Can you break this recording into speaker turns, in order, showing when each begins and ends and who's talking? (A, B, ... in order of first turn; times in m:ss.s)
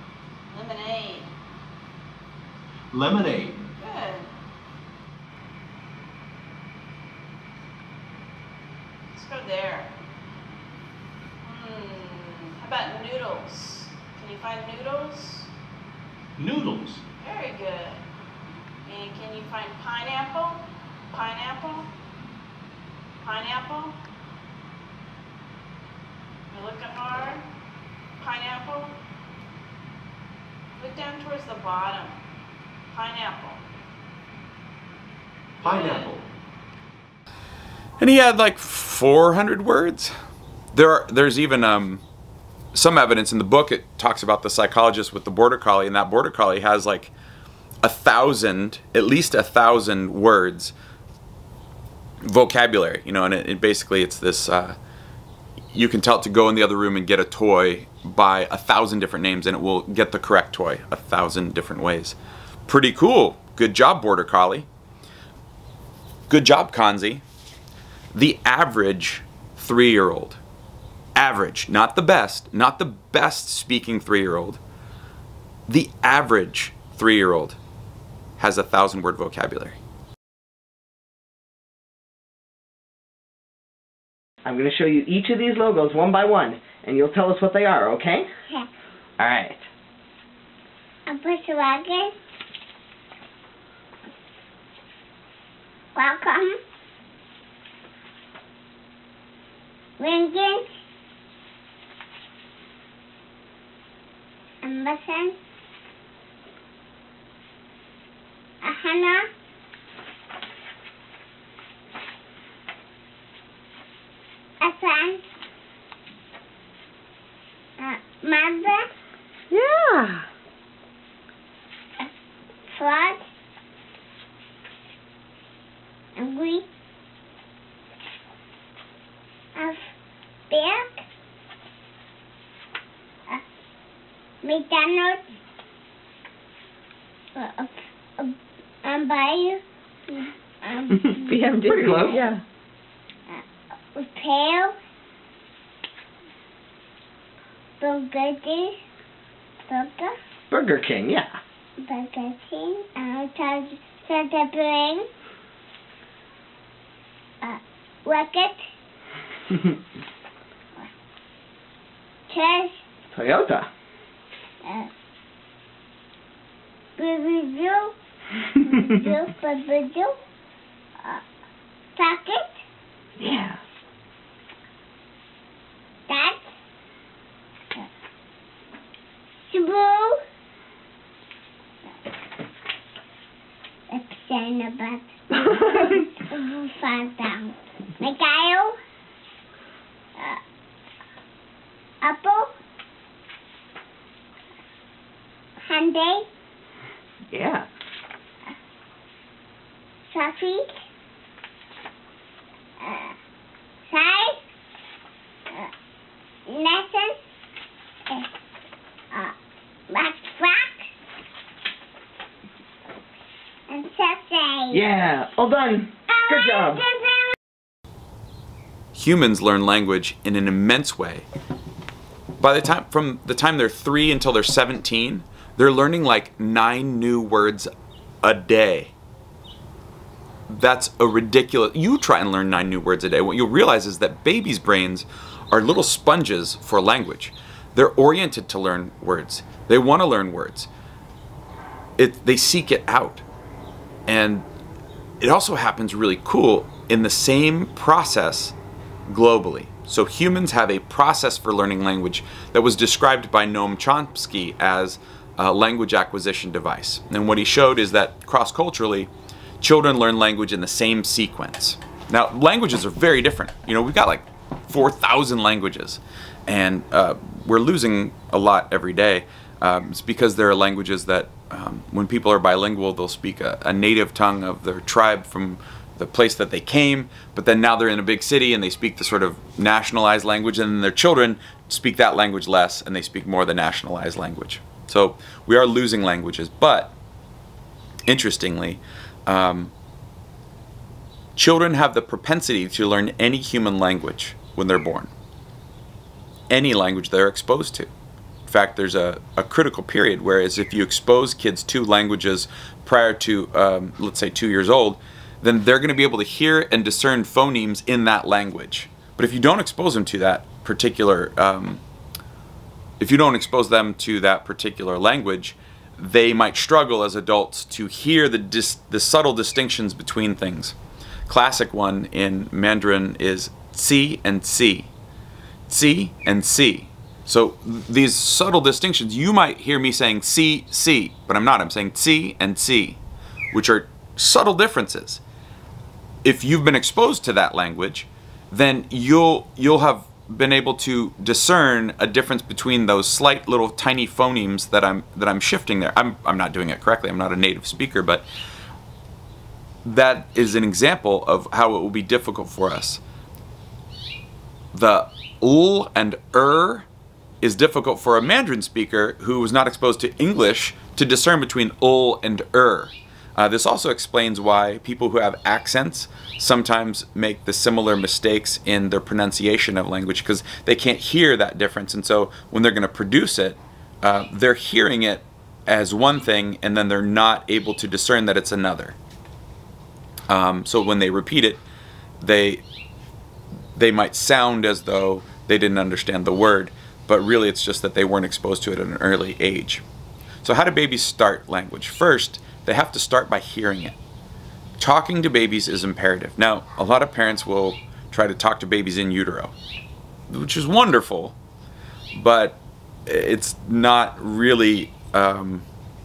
0:00.5-0:01.3 A
0:02.9-0:03.6 B
0:03.8-0:04.3 A
0:09.1-0:09.9 A
0:11.4-0:15.5 A
0:16.4-0:17.0 B
0:17.2-0:18.0 A
0:18.8-0:21.9 A
0:23.2-0:24.0 A
0:26.5-0:27.4 A
0:28.2-0:28.9 A
0:30.8-0:32.2 A
0:32.9-0:33.6 A
0:35.6-0:36.1 A
0:35.6-0:36.2 B
0:38.0-0:40.1 C
0:40.7-0:42.0 C
0:42.7-0:47.1 C
0:47.8-0:50.7 C
0:52.2-0:54.8 C
0:55.7-1:02.2 C
1:02.7-1:04.7 C
1:06.3-1:07.2 C
1:08.1-1:10.4 C
1:11.2-1:14.6 C
1:15.7-1:17.6 C
1:18.4-1:19.8 C
1:24.4-1:28.3 D
1:29.2-1:29.6 D
1:31.0-1:32.1 E
1:35.9-1:36.6 E
1:40.0-1:40.8 E
1:44.6-1:45.4 E
1:48.6-1:49.3 E
1:54.6-1:55.2 E
1:57.8-1:58.9 E
2:02.7-2:03.3 E
2:06.2-2:06.6 E
2:09.6-2:09.8 E
2:10.5-2:11.0 E
2:14.4-2:15.4 E
2:17.3-2:22.3 E
2:21.0-2:22.4 D
2:23.9-2:24.8 E
2:27.8-2:28.8 E
2:29.7-2:30.2 E
2:30.5-2:31.4 D
2:31.8-2:35.1 E
2:37.4-2:38.7 E
2:42.3-2:42.8 E
2:43.1-2:43.7 D
2:44.6-2:44.9 E
2:47.0-2:47.9 E
2:48.6-2:50.1 E
2:52.0-2:52.6 E
2:53.2-2:53.6 D
2:56.1-2:56.6 E
2:59.5-3:00.2 E
3:03.9-3:08.8 E
3:12.0-3:12.5 E
3:15.6-3:16.3 E
3:17.3-3:17.7 D
3:20.1-3:20.8 E
3:22.8-3:23.1 E
3:23.9-3:24.4 E
3:26.5-3:27.2 E
3:29.9-3:30.9 E
3:33.7-3:34.8 E
3:34.7-3:36.8 D
3:36.1-3:37.3 E
3:38.9-3:41.3 C
3:42.4-3:47.7 C
3:48.2-3:48.9 C
3:50.5-4:00.7 C
4:02.0-4:03.2 C
4:04.1-4:04.4 C
4:05.2-4:08.5 C
4:09.1-4:19.1 C
4:19.6-4:46.9 C
4:48.1-4:49.7 C
4:51.3-4:55.1 C
4:56.5-4:57.9 C
4:58.5-5:11.8 C
5:13.0-5:20.7 C
5:21.3-5:24.9 C
5:25.7-5:33.0 C
5:33.5-5:35.2 C
5:36.2-5:48.2 C
5:49.8-5:53.0 C
5:54.7-5:56.9 C
5:57.4-6:19.0 C
6:20.3-6:21.6 C
6:22.2-6:22.6 C
6:23.8-6:29.8 C
6:30.4-6:34.0 C
6:34.8-6:39.5 C
6:40.3-6:41.4 C
6:42.1-6:45.6 C